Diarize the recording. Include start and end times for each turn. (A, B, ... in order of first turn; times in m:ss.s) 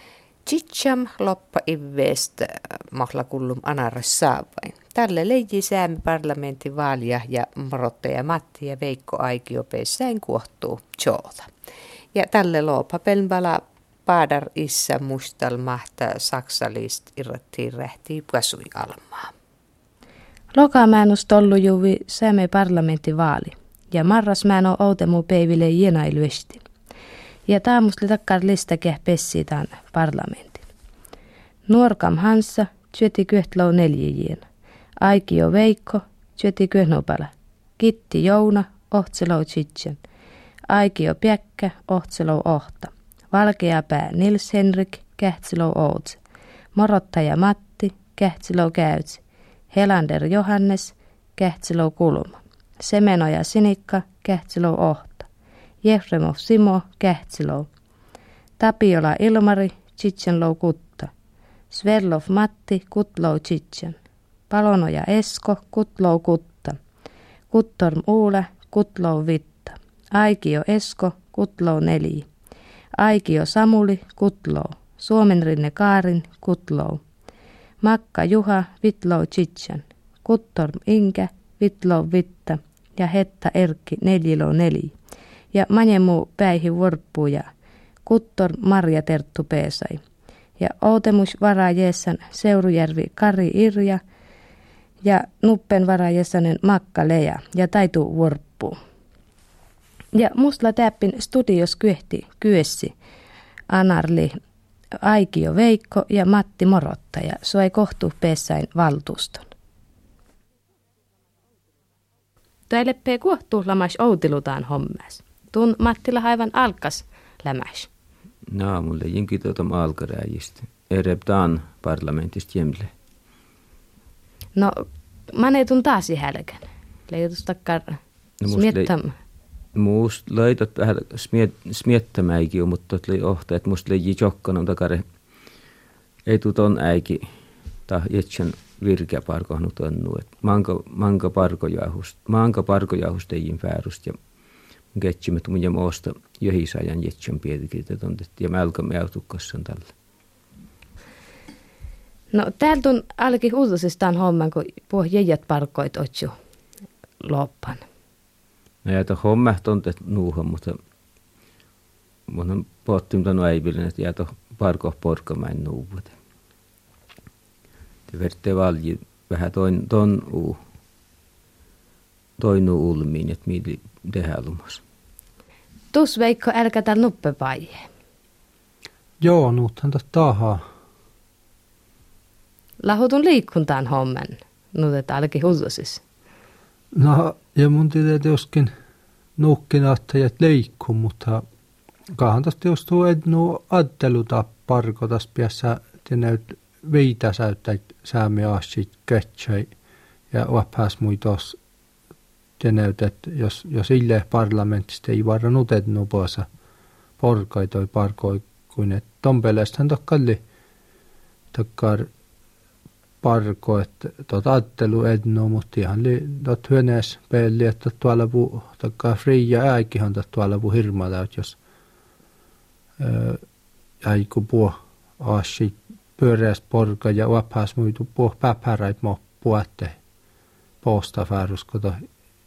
0:00.4-0:11.5 A
0:12.1-0:19.3 A
0:20.5-0:26.6 B
0:27.5-0:30.7 B
0:31.7-0:34.4 B
0:35.0-0:40.0 B
0:40.7-0:46.2 B
0:46.7-0:49.2 B
0:49.7-0:55.3 B
0:55.8-0:57.7 B
0:58.6-1:01.1 B
1:01.7-1:04.0 B
1:04.5-1:06.8 B
1:07.5-1:12.3 B
1:13.0-1:17.0 B
1:17.8-1:24.9 B
1:25.5-1:27.5 B
1:28.0-1:30.0 B
1:30.6-1:34.0 B
1:35.0-1:38.8 B
1:40.1-1:42.9 B
1:43.7-1:44.4 B
1:45.0-1:49.5 B
1:52.7-1:57.9 B
1:58.5-2:02.9 C
2:04.5-2:09.1 B
2:08.4-2:08.9 C
2:09.7-2:15.0 C
2:16.3-2:17.2 C
2:17.9-2:24.2 C
2:24.9-2:29.9 C
2:32.3-2:36.3 B
2:37.2-2:37.8 B
2:38.8-2:40.8 C
2:42.3-2:46.1 C
2:48.1-2:50.6 C
2:52.4-2:54.8 C
2:55.9-2:57.8 B
2:59.2-3:00.6 D
3:02.8-3:06.0 B
3:06.9-3:08.7 D
3:09.4-3:11.4 D
3:12.2-3:19.7 D
3:20.3-3:21.6 D
3:22.6-3:26.5 D
3:27.2-3:30.4 D
3:31.5-3:32.1 D
3:33.2-3:41.6 D
3:43.0-3:43.4 D
3:44.0-3:50.0 D
3:50.8-3:52.0 D